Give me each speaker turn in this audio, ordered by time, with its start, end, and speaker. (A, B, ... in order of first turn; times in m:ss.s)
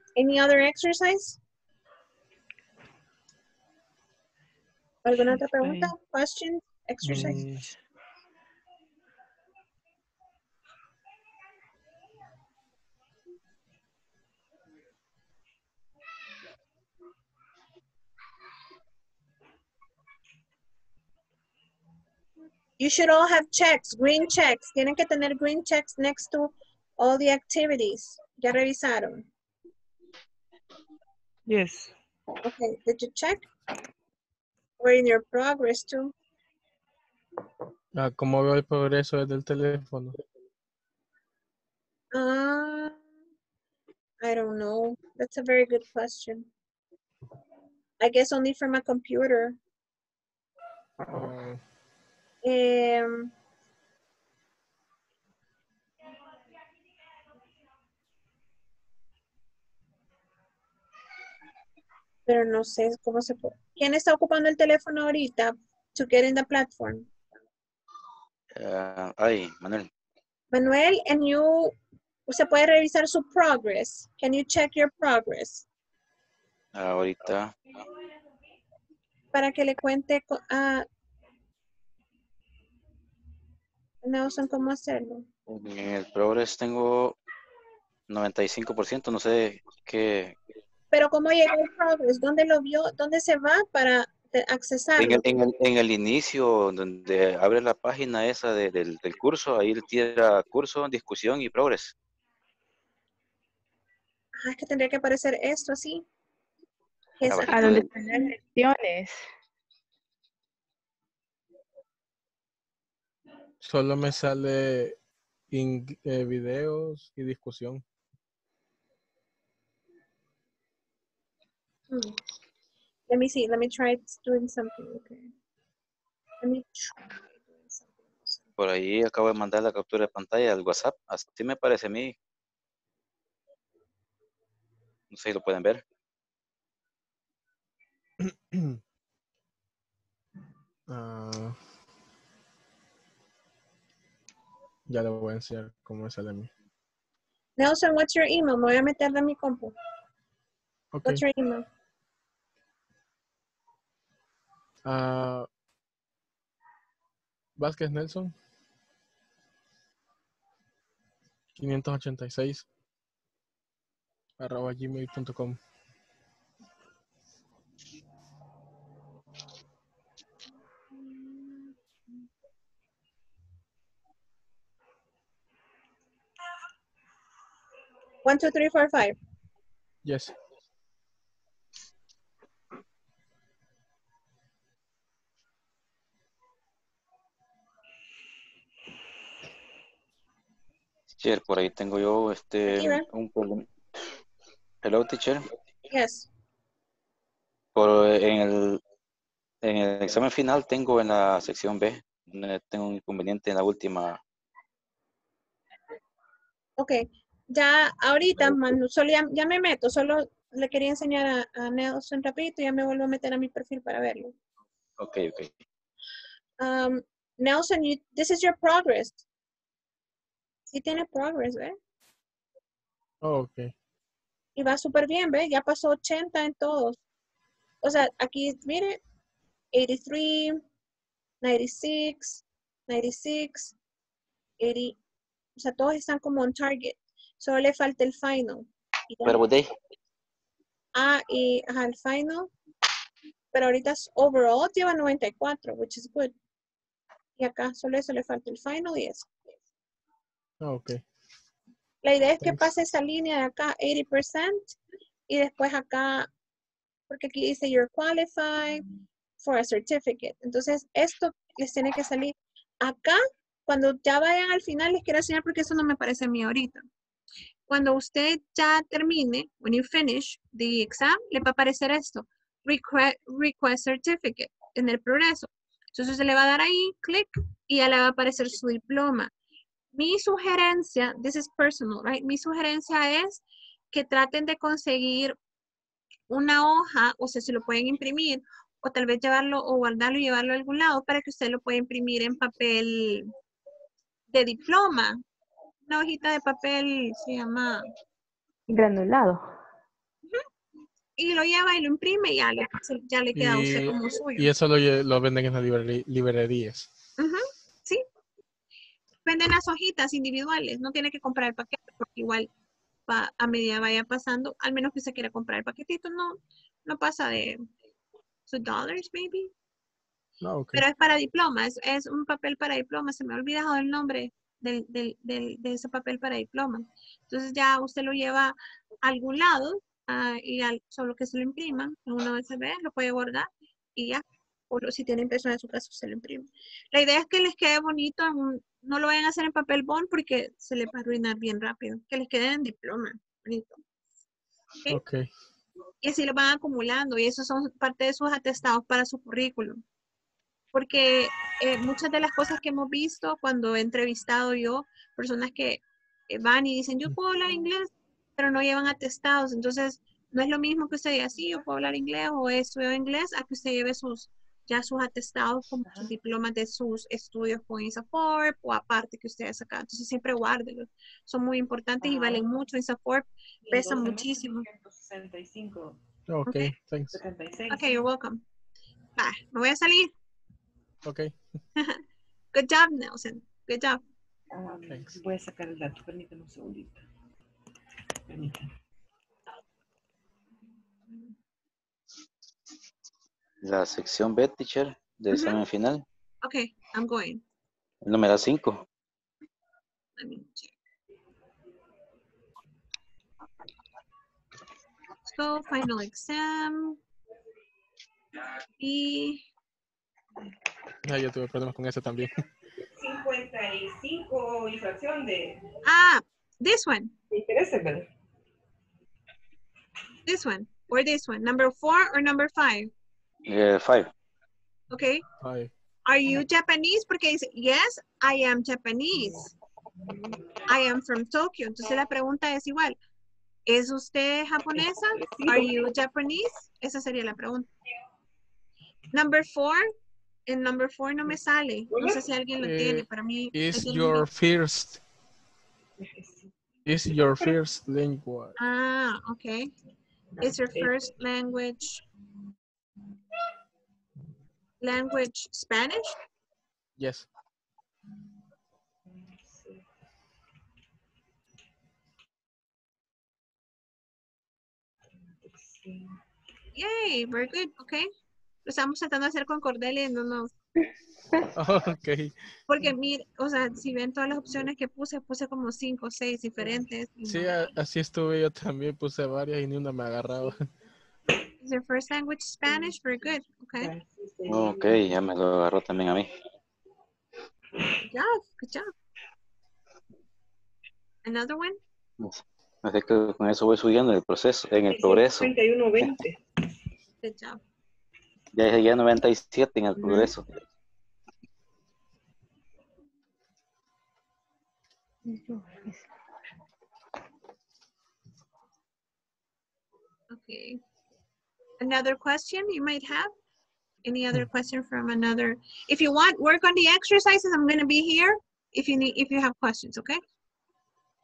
0:00.2-0:01.4 A
0:05.0-0:07.4 A
0:05.2-0:05.9 B
0:07.0-0:07.6 C
0:07.2-0:07.8 B
0:22.8-0:29.3 A
0:31.5-0:31.9 B
0:32.4-0:33.4 A
0:34.8-0:36.1 A
0:38.0-0:40.2 C
0:42.1-0:43.0 A
0:44.2-0:46.5 A
0:48.0-0:49.6 A
0:51.1-0:51.6 C
0:52.4-0:53.3 A
1:02.3-1:07.1 A
1:08.6-1:09.9 D
1:10.5-1:11.7 A
1:12.3-1:15.7 A
1:16.7-1:17.6 D
1:19.3-1:20.9 A
1:24.0-1:25.3 A
1:25.5-1:27.2 D
1:28.1-1:30.4 D
1:30.9-1:35.4 A
1:35.0-1:41.9 D
1:44.4-1:46.0 A
1:47.2-1:47.9 A
1:47.3-1:47.8 D
1:47.5-1:49.2 E
1:53.6-1:55.0 C
1:55.5-1:57.8 C
2:01.9-2:02.2 A
2:03.1-2:05.3 A
2:06.4-2:08.4 A
2:08.6-2:12.2 D
2:15.1-2:15.8 D
2:18.3-2:18.8 C
2:20.9-2:21.6 C
2:24.9-2:26.5 C
2:27.6-2:29.8 A
2:30.9-2:31.2 C
2:31.0-2:31.6 A
2:34.8-2:35.5 C
2:37.6-2:38.3 C
2:41.6-2:42.7 C
2:44.4-2:45.6 C
2:58.2-2:59.2 A
3:00.0-3:00.3 C
3:11.2-3:13.7 D
3:12.7-3:13.0 A
3:14.8-3:15.5 D
3:15.9-3:16.3 A
3:17.8-3:18.8 D
3:19.6-3:24.2 D
3:26.8-3:34.4 A
3:35.0-3:35.5 D
3:36.6-3:39.2 A
3:40.7-3:41.8 A
3:43.2-3:43.7 C
3:44.6-3:47.0 A
3:47.8-3:49.0 A
3:49.7-3:50.6 A
3:51.4-3:53.8 A
3:54.6-3:55.0 A
3:55.6-3:59.4 A
3:59.2-3:59.7 D
4:01.0-4:02.5 A
4:03.5-4:06.3 A
4:07.4-4:09.4 A
4:10.6-4:11.0 C
4:12.0-4:14.8 A
4:12.4-4:12.7 C
4:15.3-4:16.3 A
4:17.1-4:18.9 A
4:19.4-4:26.8 A
4:27.7-4:39.3 A
4:39.9-4:45.4 A
4:46.3-4:53.3 A
4:54.3-4:55.2 A
4:55.9-4:57.8 A
4:58.7-4:59.5 E
5:01.2-5:04.5 A
5:03.4-5:06.9 C
5:07.2-5:08.0 A
5:09.3-5:12.5 A
5:13.1-5:17.6 A
5:18.5-5:19.5 A
5:20.4-5:20.8 C
5:20.7-5:43.8 A
5:44.9-5:45.3 C
5:46.0-5:49.8 A
5:50.7-6:14.7 A
6:12.0-6:12.4 B
6:13.6-6:16.0 B
6:16.3-6:17.2 C
6:16.5-6:16.7 A
6:17.1-6:18.0 B
6:17.7-6:18.4 A
6:19.2-6:20.1 A
6:21.0-6:21.4 C
6:21.8-6:22.0 A
6:22.5-6:24.0 A
6:24.5-6:27.0 B
6:24.9-6:25.2 C
6:28.3-6:28.7 B
6:33.6-6:36.0 D
6:35.3-6:35.6 A
6:36.4-6:37.4 A
6:38.0-6:38.8 D
6:40.2-6:40.7 A
6:45.3-6:47.0 A
6:48.8-6:49.4 A
6:51.0-6:52.3 C
6:53.0-6:55.6 B
6:55.8-6:57.1 A
6:57.3-6:58.1 B
7:00.3-7:02.9 A
7:03.5-7:04.1 D
7:04.9-7:05.2 A
7:05.4-7:05.7 C
7:06.1-7:09.5 A
7:10.7-7:13.0 A
7:13.7-7:17.7 A
7:14.8-7:15.8 B
7:19.1-7:19.9 A
7:20.5-7:24.3 A
7:21.9-7:22.2 B
7:22.6-7:25.0 C
7:26.0-7:26.5 B
7:26.9-7:28.6 C
7:28.6-7:29.7 A
7:30.4-7:31.0 B
7:30.4-7:32.0 A
7:34.8-7:36.2 A
7:37.0-7:37.3 C
7:39.1-7:39.8 B
7:45.4-7:46.2 B
7:46.8-7:48.1 A
7:48.6-7:50.5 A
7:51.6-7:52.3 C
7:52.7-7:57.7 A
7:57.3-8:00.7 C
8:01.6-8:03.9 A
8:03.8-8:05.0 B
8:04.5-8:06.3 D
8:08.1-8:08.9 A
8:11.2-8:11.8 A
8:12.2-8:16.1 D
8:14.9-8:16.4 B
8:17.2-8:17.6 A
8:18.5-8:20.4 D
8:25.5-8:25.8 B
8:30.3-8:30.8 A
8:31.8-8:33.3 A
8:34.0-8:40.2 A